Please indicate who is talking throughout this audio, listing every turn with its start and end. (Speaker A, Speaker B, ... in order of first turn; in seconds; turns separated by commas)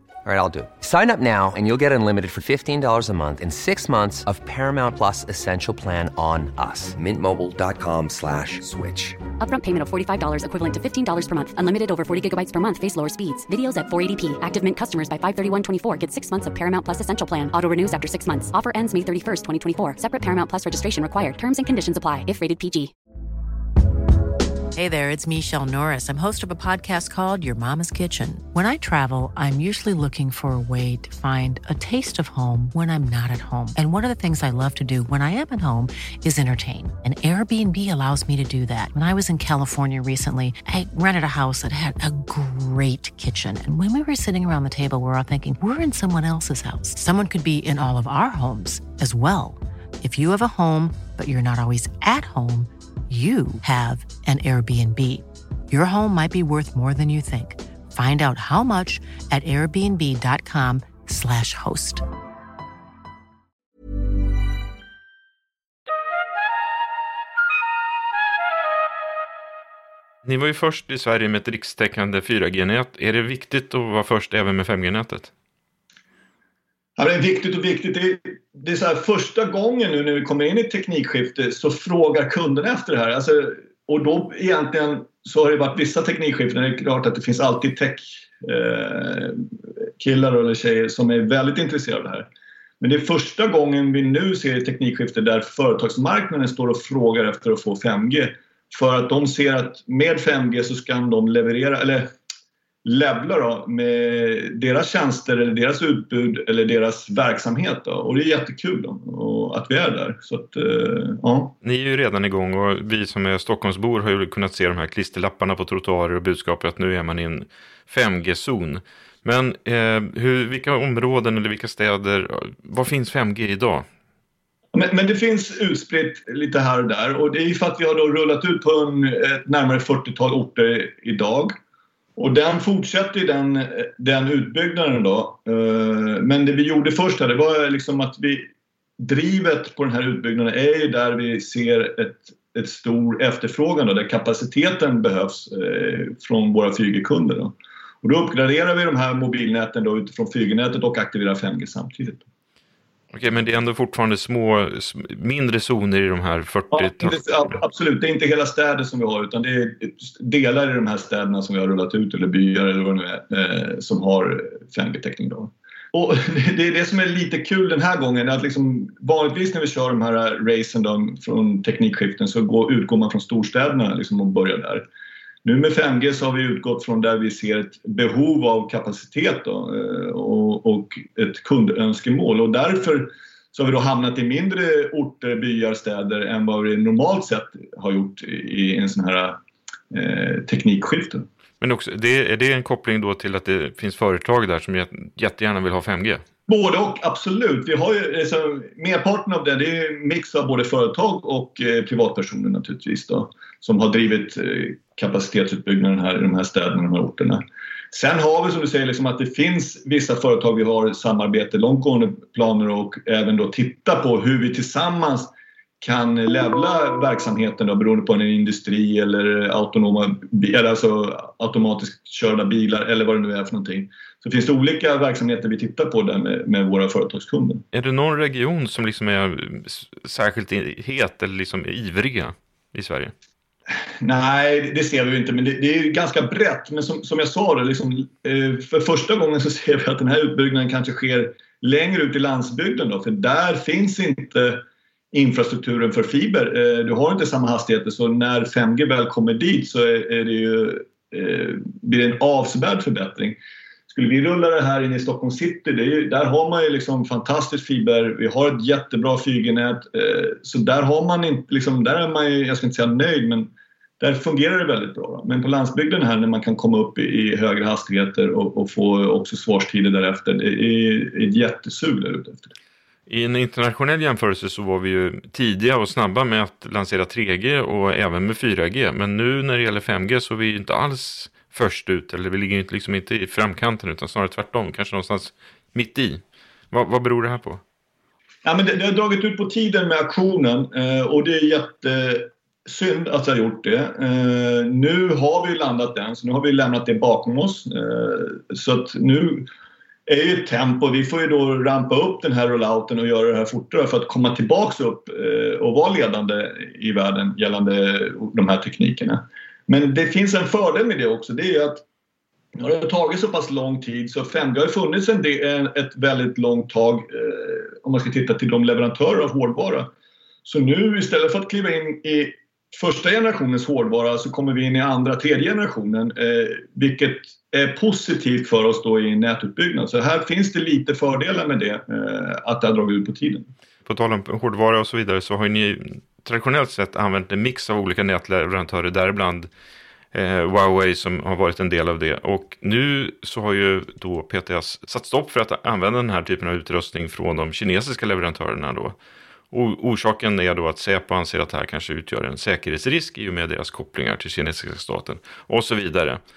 Speaker A: 0.2-9.2, Speaker B: 9.4-22.9, Speaker C: 24.8-62.0, Speaker D: 70.2-75.3, Speaker E: 77.0-89.4, Speaker E: 90.0-92.3, Speaker E: 92.8-102.1, Speaker E: 102.8-111.5, Speaker D: 111.6-123.9, Speaker E: 124.7-131.6, Speaker E: 132.2-152.2, Speaker D: 153.1-157.3, Speaker E: 156.7-174.8, Speaker E: 175.4-189.4, Speaker E: 189.9-191.3, Speaker D: 191.6-196.2, Speaker E: 196.5-227.7, Speaker D: 227.7-233.1, Speaker E: 234.0-253.4, Speaker E: 253.9-272.5, Speaker D: 273.1-287.6, Speaker E: 288.4-299.5, Speaker E: 300.1-311.8, Speaker E: 312.6-319.9, Speaker E: 320.4-333.5, Speaker D: 333.9-339.5, Speaker D: 340.1-349.0, Speaker D: 349.5-356.2